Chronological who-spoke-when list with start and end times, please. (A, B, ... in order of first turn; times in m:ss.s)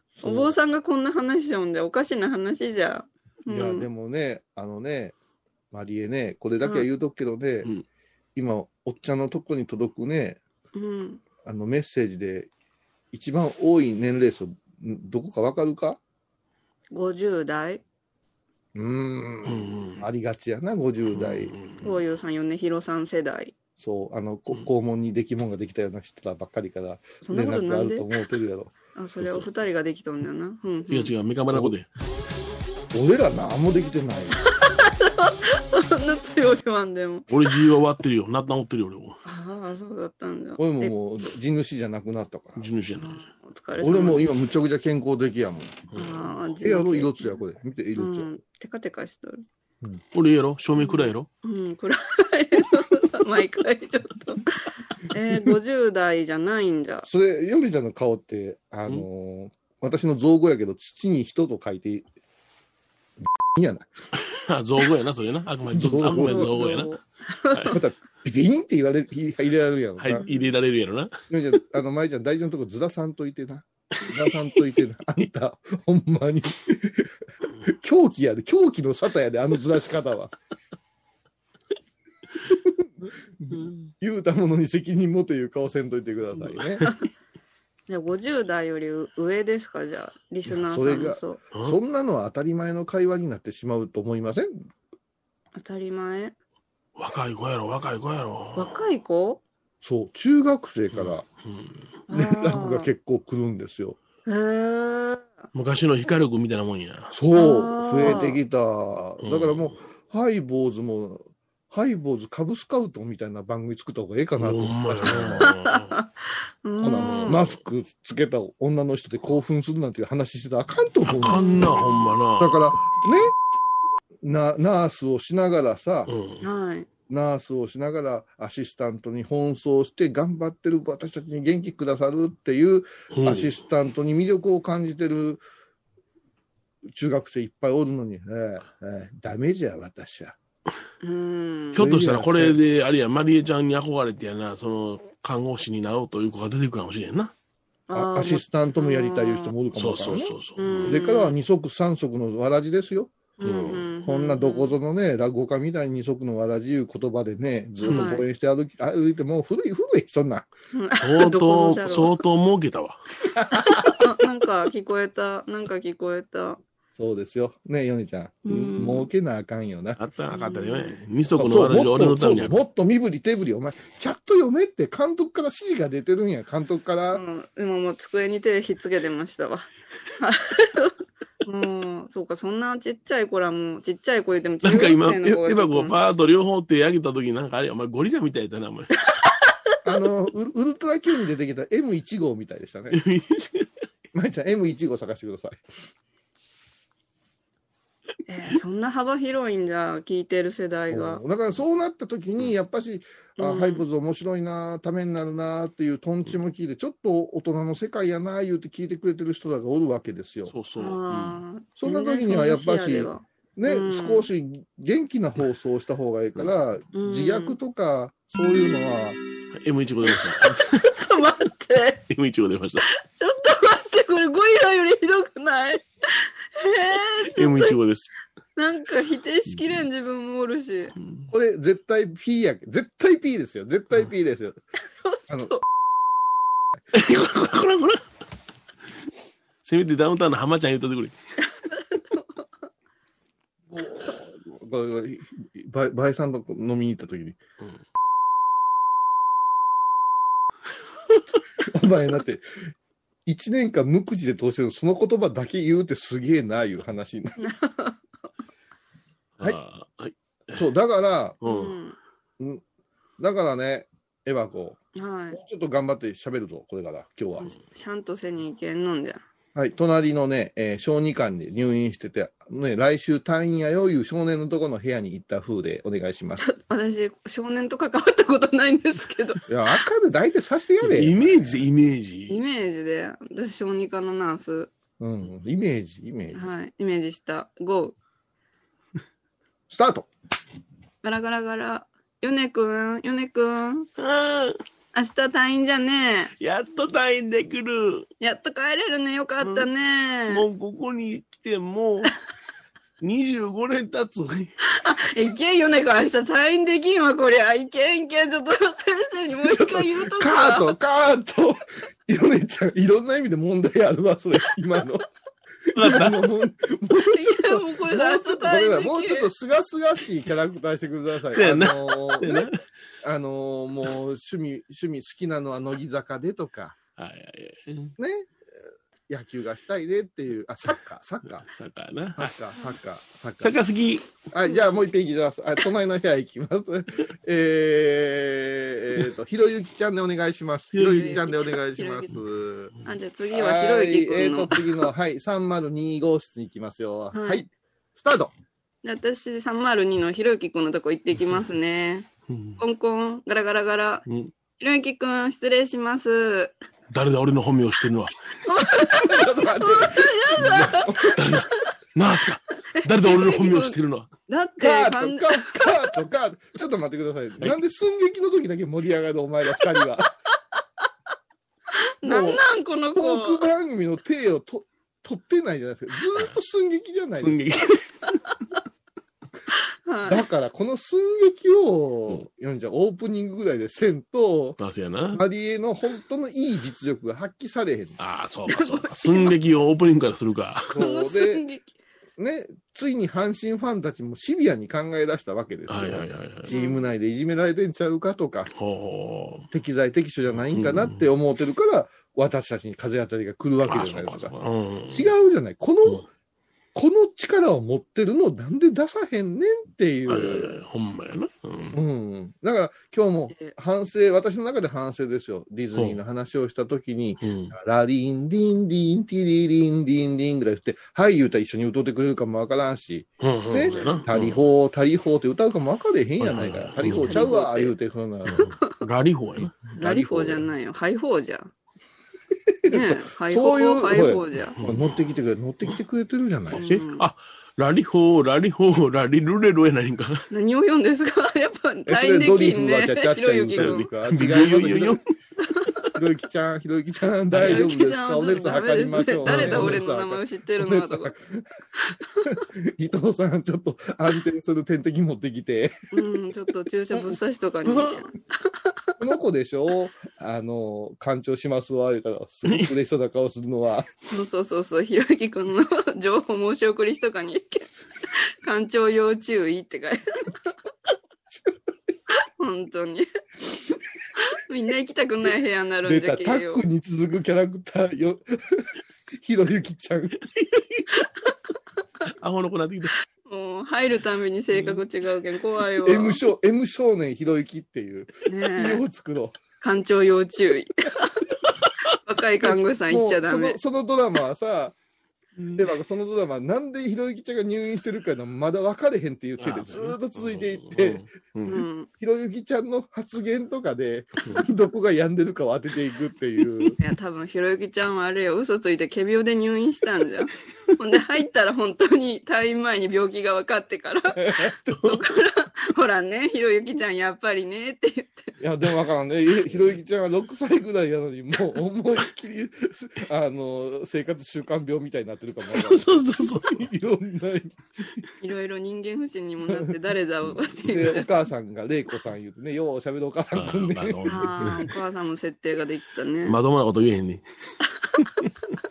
0:00.2-0:00.5 A
0:00.2-0:03.9 B
0:03.5-0:05.2 A
0:05.7-0:07.7 A
0:06.6-0:06.9 B
0:08.4-0:10.4 A
0:10.8-0:11.2 B
0:11.4-0:12.5 A
0:13.1-0:16.0 A
0:16.9-0:17.8 B
0:18.8-0:21.6 A
0:19.4-0:20.1 C
0:21.1-0:21.9 C
0:21.8-0:23.5 B
0:23.8-0:28.7 A
0:27.2-0:28.3 B
0:29.0-0:31.1 B
0:29.2-0:29.5 C
0:30.9-0:31.9 C
0:32.9-0:34.4 A
0:34.6-0:37.6 B
0:37.3-0:39.2 C
0:39.2-0:41.0 B
0:40.6-0:42.7 A
0:42.6-0:43.2 C
0:42.9-0:44.3 B
0:43.8-0:45.8 A
0:45.9-0:46.3 C
0:46.0-0:47.4 B
0:46.6-0:48.3 A
0:48.0-0:49.4 B
0:50.1-0:51.3 C
0:50.8-0:57.1 B
0:57.1-1:02.1 A
1:03.5-1:03.9 A
1:04.2-1:06.9 C
1:05.7-1:06.6 A
1:06.0-1:07.8 B
1:07.5-1:07.8 C
1:07.7-1:10.2 A
1:10.0-1:11.2 C
1:11.3-1:20.3 A
1:22.5-1:22.9 A
1:23.4-1:26.9 A
1:27.9-1:31.4 B
1:30.6-1:34.6 A
1:35.6-1:36.4 B
1:37.0-1:38.8 C
1:38.6-1:39.4 B
1:39.8-1:41.3 A
1:40.9-1:41.9 C
1:42.1-1:42.9 B
1:42.1-1:44.0 A
1:44.3-1:45.4 B
1:45.5-1:47.1 C
1:47.1-1:55.5 A
1:47.3-1:48.4 B
1:49.2-1:49.8 C
1:54.4-1:56.0 C
1:55.4-1:56.1 B
1:56.6-1:57.4 B
1:56.8-2:01.7 A
1:57.0-1:57.4 C
2:01.0-2:02.6 C
2:01.3-2:02.0 B
2:02.4-2:03.4 A
2:04.2-2:06.1 A
2:06.1-2:06.5 C
2:06.4-2:06.9 B
2:07.1-2:15.4 A
2:13.1-2:13.5 C
2:16.9-2:20.4 A
2:21.0-2:21.8 B
2:21.7-2:27.3 C
2:21.8-2:22.6 A
2:27.9-2:29.5 B
2:27.9-2:33.1 A
2:29.8-2:31.0 C
2:30.6-2:31.4 B
2:33.4-2:34.8 B
2:33.4-2:33.9 C
2:34.0-2:40.5 A
2:37.8-2:38.2 B
2:37.9-2:38.2 C
2:40.7-2:42.2 B
2:41.0-2:43.0 C
2:43.4-2:43.9 A
2:43.5-2:46.6 B
2:47.0-2:50.0 A
2:48.4-2:49.1 B
2:48.5-2:48.8 C
2:50.0-2:52.6 C
2:50.3-2:51.0 B
2:51.4-2:57.2 A
2:57.1-3:06.0 B
3:04.6-3:08.9 C
3:09.8-3:13.0 A
3:12.9-3:13.7 C
3:14.1-3:15.6 A
3:18.3-3:21.2 B
3:20.9-3:30.5 A
3:23.4-3:23.8 B
3:30.5-3:31.4 C
3:30.8-3:34.3 B
3:31.8-3:39.2 A
3:36.9-3:37.6 B
3:39.5-3:40.8 C
3:40.6-3:42.1 B
3:42.1-3:42.9 C
3:42.9-3:47.8 B
3:47.3-3:48.1 C
3:48.6-3:51.0 B
3:51.0-3:51.3 C
3:51.3-3:54.6 A
3:56.9-3:58.0 C
3:59.6-4:01.2 C
4:01.7-4:02.4 B
4:03.7-4:07.4 A
4:11.7-4:12.4 A
4:13.3-4:17.4 A
4:17.4-4:18.0 B
4:19.4-4:20.7 C
4:20.6-4:21.4 A
4:21.4-4:21.8 C
4:21.4-4:22.0 B
4:23.2-4:24.8 A
4:25.0-4:25.4 B
4:25.3-4:27.5 A
4:27.4-4:29.2 B
4:29.6-4:36.4 A
4:36.4-4:39.4 B
4:39.5-4:41.6 A
4:40.8-4:42.4 C
4:42.3-4:44.7 B
4:45.0-4:46.5 A
4:46.3-4:48.0 B
4:49.7-4:50.1 A
4:51.0-4:53.9 B
4:54.0-4:54.6 C
4:54.9-4:56.3 B
4:56.4-4:58.1 C
4:58.2-5:00.4 B
4:59.4-4:59.7 C
5:00.3-5:02.1 C
5:03.0-5:04.5 C
5:04.7-5:10.8 B
5:09.3-5:15.1 A
5:15.7-5:22.4 A
5:15.8-5:16.3 C
5:17.1-5:19.3 B
5:21.3-5:22.6 C
5:23.0-5:26.8 A
5:27.0-5:28.0 C
5:28.0-5:28.3 A
5:29.1-5:31.5 A
5:31.4-5:32.3 C
5:32.2-5:33.6 A
5:33.4-5:34.1 C
5:34.3-5:42.7 A
5:40.7-5:41.3 C
5:40.9-5:42.2 B
5:42.8-5:44.9 B
5:43.3-5:48.3 A
5:47.1-5:47.4 B
5:48.8-5:52.1 B
5:52.3-5:52.6 C
5:52.6-5:54.1 B
5:54.1-5:54.3 C
5:54.6-5:56.6 B
5:56.9-5:58.2 C
5:58.5-6:01.2 B
5:58.9-6:01.2 A
6:00.4-6:04.1 C
6:02.8-6:03.8 B
6:04.3-6:05.9 B
6:04.6-6:10.1 A
6:11.7-6:13.5 B
6:12.0-6:17.5 A
6:17.2-6:18.2 C
6:19.9-6:20.2 B
6:20.1-6:24.6 A
6:24.6-6:25.2 C
6:25.1-6:28.0 A
6:28.0-6:30.7 C
6:28.5-6:29.3 B
6:30.7-6:31.4 A
6:30.8-6:31.7 B
6:32.2-6:38.5 A
6:35.7-6:36.5 C
6:36.5-6:36.9 B
6:38.5-6:39.5 C
6:39.5-6:44.3 A
6:40.3-6:41.0 C
6:43.7-6:45.1 C
6:44.9-6:46.1 A
6:46.8-6:50.6 A
6:50.1-6:51.8 C
6:51.7-7:08.6 A
6:57.2-6:57.6 C
7:03.2-7:04.4 C
7:06.2-7:07.3 C
7:06.9-7:07.7 B
7:08.3-7:10.4 C
7:09.8-7:11.5 B
7:12.5-7:16.7 A
7:12.7-7:14.6 B
7:14.6-7:14.9 C
7:16.5-7:17.1 B
7:16.6-7:20.3 C
7:20.3-7:23.9 B
7:21.9-7:25.0 A
7:23.6-7:25.1 C
7:25.4-7:25.9 B
7:26.0-7:31.4 A
7:27.3-7:27.7 C
7:27.4-7:31.1 B
7:29.2-7:29.8 C
7:31.8-7:32.3 B
7:32.3-7:35.8 A
7:35.9-7:38.2 B
7:37.7-7:38.0 C
7:39.0-7:43.9 A
7:42.4-7:42.7 C
7:44.1-7:47.7 B
7:48.4-7:50.3 B
7:52.4-7:53.1 B
7:54.2-7:56.6 B
7:55.8-7:58.7 A
7:59.2-8:00.2 A
8:00.2-8:00.9 C
8:02.2-8:02.9 C
8:03.3-8:06.2 B
8:05.9-8:09.4 A
8:08.3-8:08.8 B
8:09.6-8:11.2 B
8:12.0-8:13.6 B
8:12.9-8:14.8 A
8:15.6-8:21.1 A
8:19.4-8:21.6 C
8:21.5-8:21.9 B
8:22.0-8:26.8 A
8:26.8-8:38.4 B
8:34.2-8:34.6 A
8:38.4-8:47.6 A
8:45.5-8:46.7 C
8:48.2-8:51.1 B
8:50.7-8:54.5 A
8:53.4-8:54.7 C
8:54.1-8:56.4 B
8:56.2-8:57.2 C